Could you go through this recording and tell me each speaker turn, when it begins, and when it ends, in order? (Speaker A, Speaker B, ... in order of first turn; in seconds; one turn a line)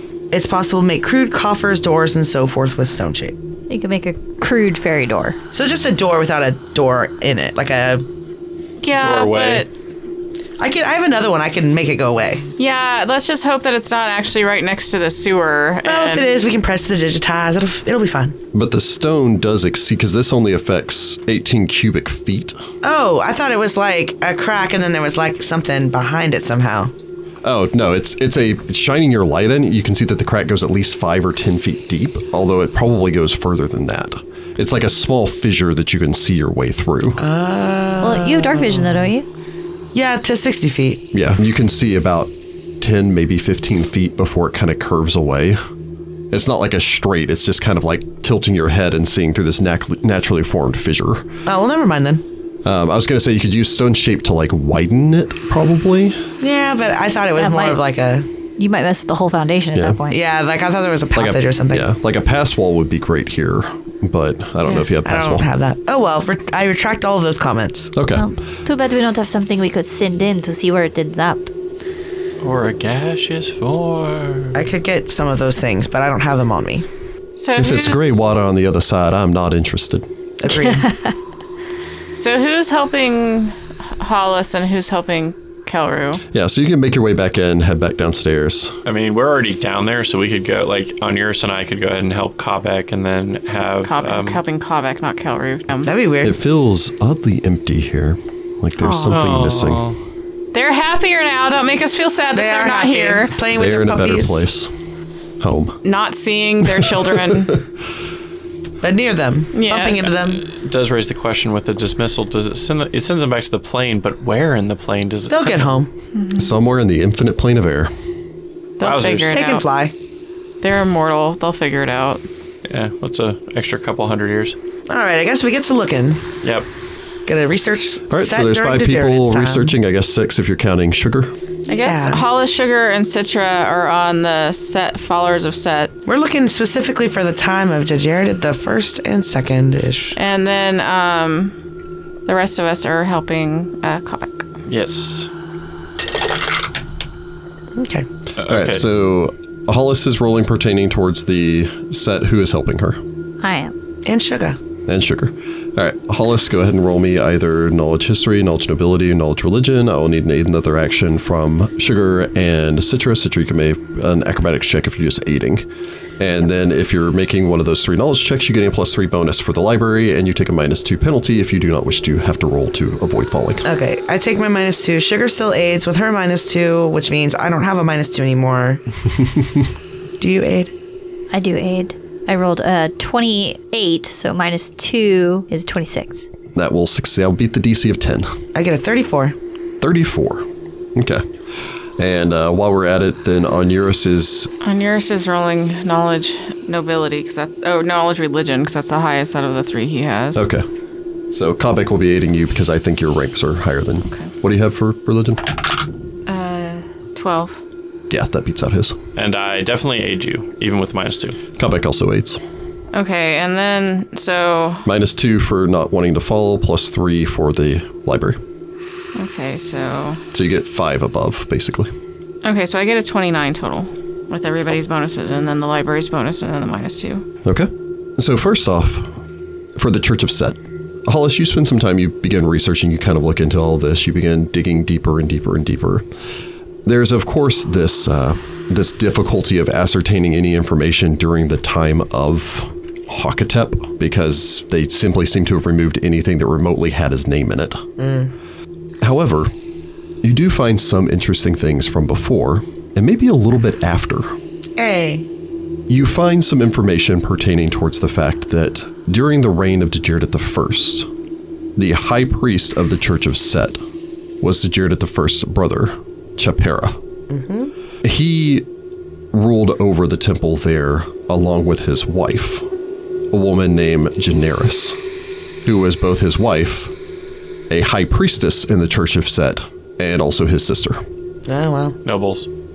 Speaker A: 0.3-3.4
Speaker B: 3.7-5.4
Speaker A: 5.5-8.0
Speaker C: 8.8-9.7
Speaker D: 8.9-9.7
Speaker A: 10.6-12.4
Speaker C: 12.6-16.4
Speaker A: 15.8-18.4
Speaker E: 18.5-22.6
Speaker A: 22.8-26.9
Speaker E: 27.4-37.2
Speaker A: 37.2-39.1
Speaker B: 38.0-39.2
Speaker A: 39.9-41.0
Speaker E: 41.1-45.6
Speaker E: 46.3-51.3
Speaker A: 51.5-52.2
Speaker E: 52.6-56.3
Speaker A: 56.4-58.2
Speaker B: 57.4-57.8
Speaker B: 58.6-60.2
Speaker E: 59.7-60.0
Speaker A: 60.1-61.9
Speaker E: 61.1-65.5
Speaker A: 64.6-67.9
Speaker E: 67.9-68.2
Speaker B: 68.1-71.5
Speaker D: 72.4-74.6
Speaker A: 74.5-76.8
Speaker C: 77.4-78.1
Speaker E: 77.6-80.0
Speaker A: 80.4-80.9
Speaker C: 82.1-86.2
Speaker E: 86.3-88.8
Speaker D: 88.8-94.4
Speaker C: 93.8-95.9
Speaker A: 95.8-96.3
Speaker E: 96.2-99.9
Speaker D: 98.9-100.0
Speaker C: 100.5-103.4
Speaker A: 102.3-104.5
Speaker E: 103.5-104.7
Speaker E: 105.4-105.8
Speaker C: 105.8-107.6
Speaker E: 106.6-107.6
Speaker A: 108.8-110.4
Speaker C: 109.5-110.1
Speaker D: 110.0-115.8
Speaker A: 115.3-115.9
Speaker C: 116.1-116.5
Speaker E: 116.3-117.9
Speaker C: 118.8-119.7
Speaker D: 118.8-119.5
Speaker A: 119.3-119.9
Speaker C: 120.6-122.2
Speaker D: 122.7-124.5
Speaker A: 124.9-126.2
Speaker A: 127.2-129.7
Speaker E: 128.1-131.3
Speaker C: 131.7-135.9
Speaker A: 131.7-132.2
Speaker A: 136.1-140.1
Speaker C: 140.2-141.5
Speaker C: 142.2-144.5
Speaker D: 144.7-145.3
Speaker A: 147.7-148.1
Speaker D: 148.4-148.8
Speaker E: 148.4-153.0
Speaker B: 153.4-153.7
Speaker A: 154.0-154.6
Speaker E: 154.9-165.7
Speaker E: 166.2-173.7
Speaker A: 173.6-178.8
Speaker A: 180.2-180.7
Speaker B: 181.3-186.2
Speaker E: 186.5-188.3
Speaker A: 188.5-189.3
Speaker E: 189.8-191.2
Speaker E: 192.0-194.5
Speaker C: 194.6-200.4
Speaker E: 200.3-200.6
Speaker E: 201.3-205.6
Speaker C: 206.2-207.6
Speaker E: 208.1-209.0
Speaker D: 209.2-211.4
Speaker E: 211.6-212.4
Speaker C: 212.9-214.8
Speaker E: 214.8-218.4
Speaker C: 219.1-220.2
Speaker E: 220.3-221.9
Speaker C: 222.4-227.2
Speaker E: 227.4-229.1
Speaker E: 229.8-236.1
Speaker E: 236.8-247.8
Speaker A: 248.0-248.3
Speaker E: 249.0-249.5
Speaker E: 250.2-254.3
Speaker A: 254.8-255.2
Speaker E: 255.9-261.1
Speaker E: 261.8-263.8
Speaker E: 264.4-267.0
Speaker A: 267.3-267.7
Speaker E: 268.0-268.7
Speaker E: 269.3-272.6
Speaker E: 273.3-275.0
Speaker E: 275.6-276.9
Speaker E: 277.7-281.0
Speaker A: 281.4-282.0
Speaker D: 282.0-282.5